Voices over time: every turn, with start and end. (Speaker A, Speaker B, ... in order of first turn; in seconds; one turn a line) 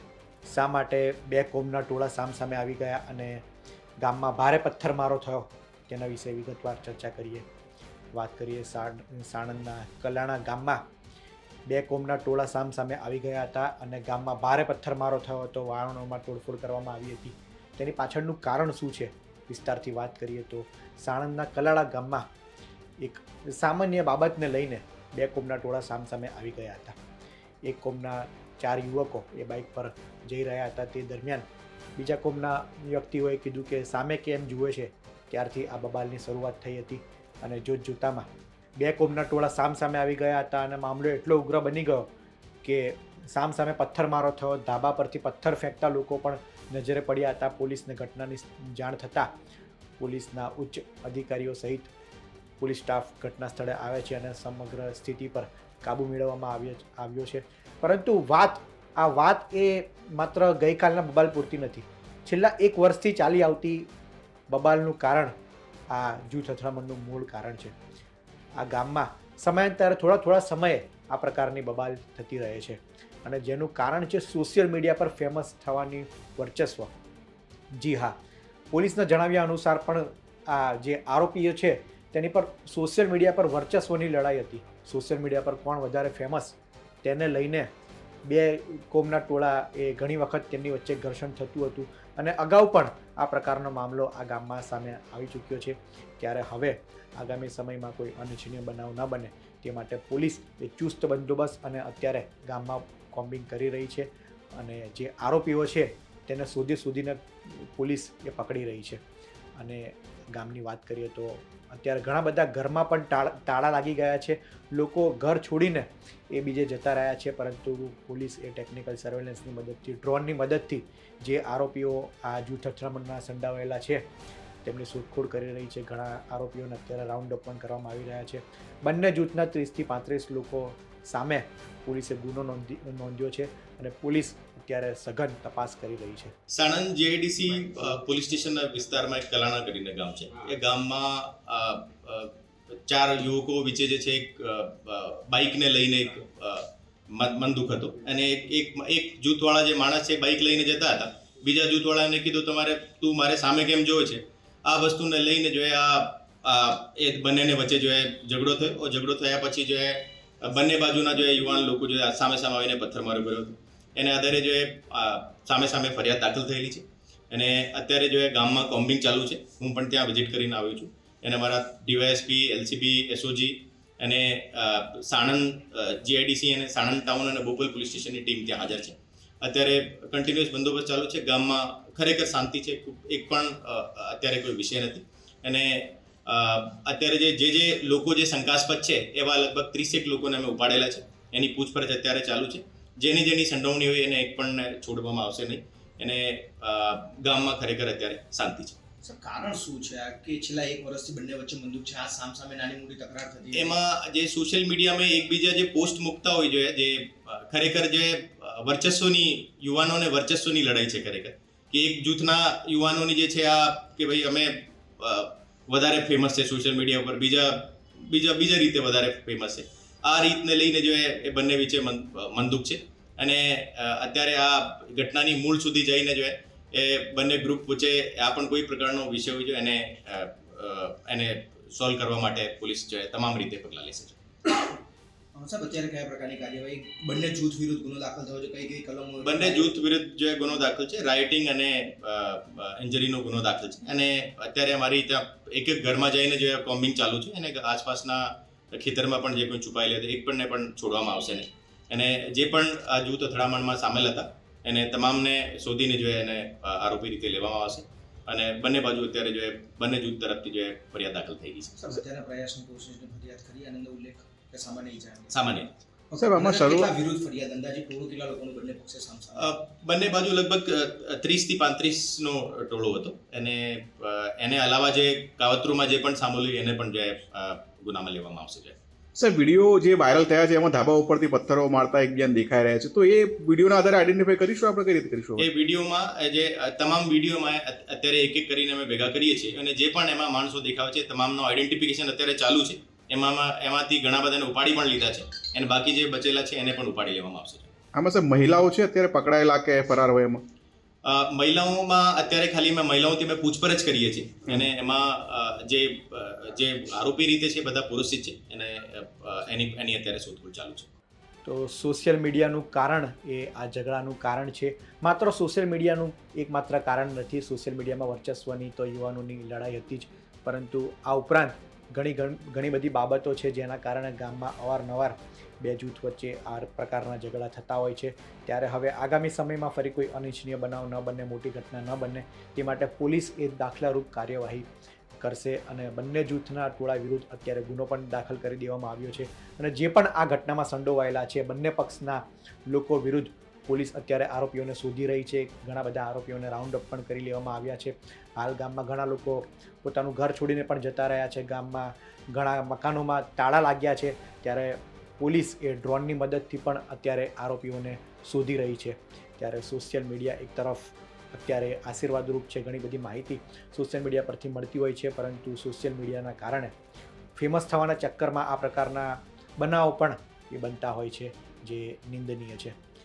Speaker A: 0.5-3.4
Speaker A: 4.0-7.5
Speaker A: 8.2-10.8
Speaker A: 11.7-22.2
Speaker A: 23.0-27.0
Speaker A: 27.7-31.4
Speaker A: 32.0-38.3
Speaker A: 38.8-42.1
Speaker A: 42.6-49.3
Speaker A: 50.0-51.9
Speaker A: 52.6-63.9
Speaker A: 64.5-65.3
Speaker A: 65.9-67.8
Speaker A: 68.6-76.9
Speaker A: 77.8-78.2
Speaker A: 78.7-87.7
Speaker A: 88.3-109.0
Speaker A: 109.6-124.0
Speaker A: 124.6-136.3
Speaker B: 136.5-142.3
Speaker B: 142.8-198.8
Speaker C: 199.0-203.8
Speaker B: 203.5-234.2
Speaker C: 235.3-239.8
Speaker B: 239.2-261.8
Speaker C: 261.8-265.6
Speaker B: 265.3-265.8
Speaker C: 266.1-269.6
Speaker D: 266.2-266.9
Speaker B: 269.3-278.8
Speaker D: 279.1-285.4
Speaker B: 285.4-297.7
Speaker D: 297.9-300.4
Speaker B: 301.1-310.9
Speaker A: 311.4-334.7
Speaker A: 335.2-366.7
Speaker A: 367.4-372.8